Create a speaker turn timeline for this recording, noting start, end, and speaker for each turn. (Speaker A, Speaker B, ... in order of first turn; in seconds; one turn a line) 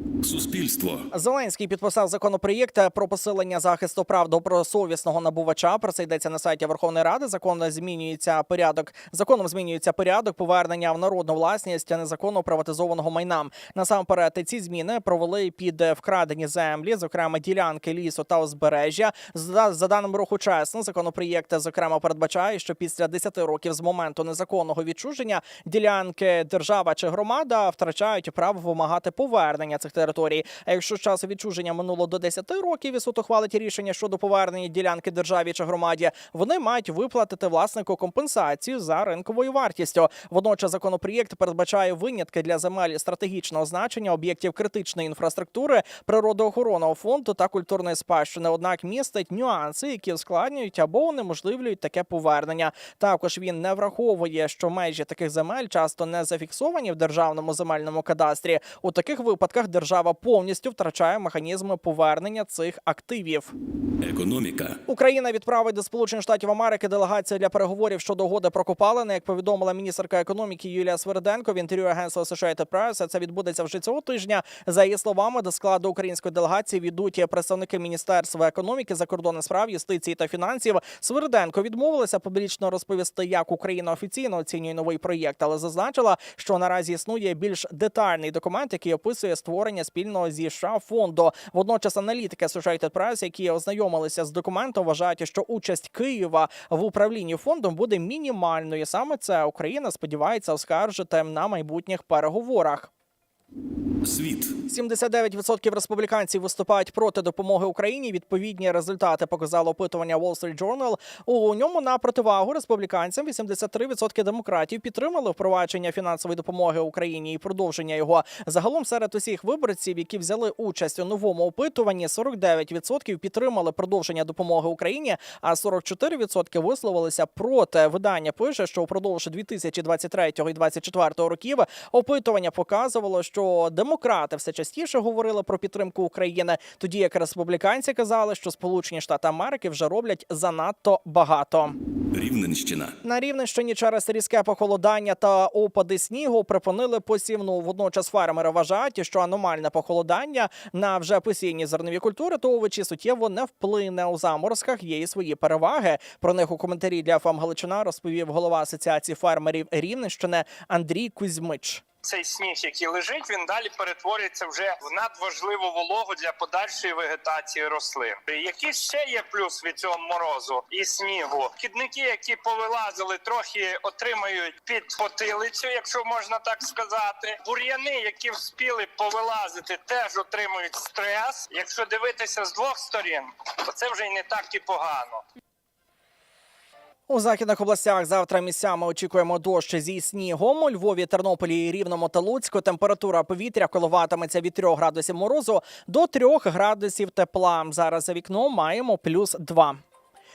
Speaker A: 0.2-1.0
Speaker B: 1.1-63.5
Speaker A: 64.0-64.8
Speaker B: 64.9-102.9
Speaker A: 104.0-104.5
Speaker B: 104.7-141.8
Speaker A: 142.1-142.9
Speaker B: 143.0-161.8
Speaker C: 162.0-185.2
Speaker B: 187.1-199.8